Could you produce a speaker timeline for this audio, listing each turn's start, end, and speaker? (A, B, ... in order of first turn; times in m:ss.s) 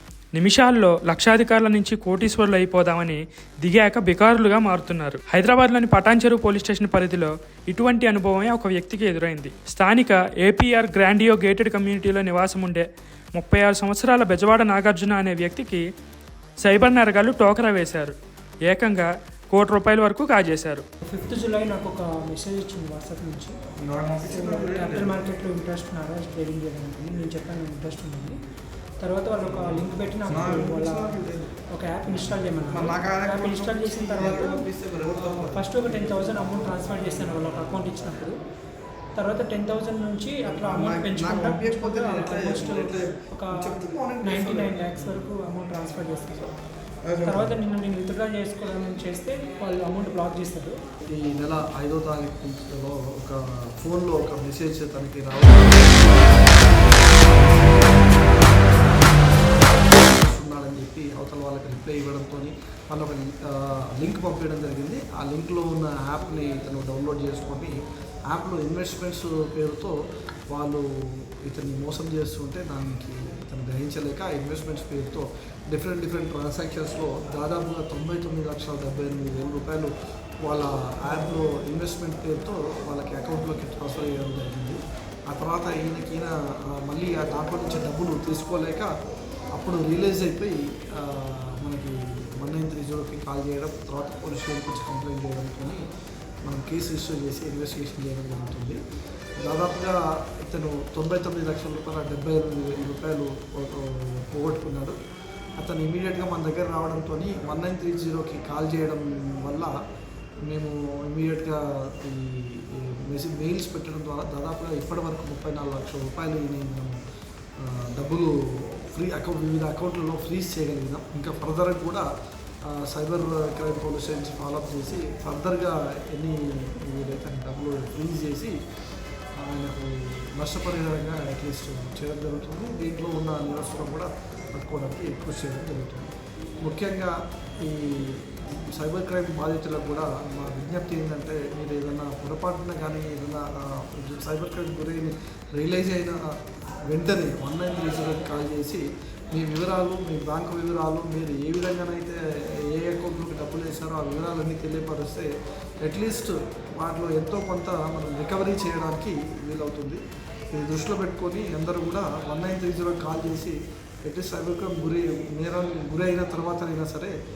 0:00.3-0:15.8 A
0:16.6-0:18.1 A
0:18.6-0:20.8 A
0:21.1-0:23.5 B
0:23.8-0:25.2 C
0:24.2-0:28.4 B
0:29.0-0:34.6 B
0:29.4-0:31.5 C
0:32.1-0:38.2 C
0:35.2-0:38.4 B
0:39.2-0:43.5 B
0:40.4-0:45.3 C
0:44.2-0:46.5 B
0:47.0-0:47.6 C
0:47.2-0:50.8 B
0:51.1-1:07.7 C
1:08.3-1:09.9 C
1:10.5-1:19.9 C
1:20.4-1:28.9 C
1:29.5-1:35.8 C
1:36.4-1:38.8 C
1:39.4-1:45.0 C
1:45.6-1:49.7 C
1:50.5-1:57.0 C
1:57.6-2:02.0 C
2:02.7-2:08.5 C
2:09.4-2:16.1 C
2:16.6-2:26.3 C
2:26.8-2:35.3 C
2:35.8-2:47.1 C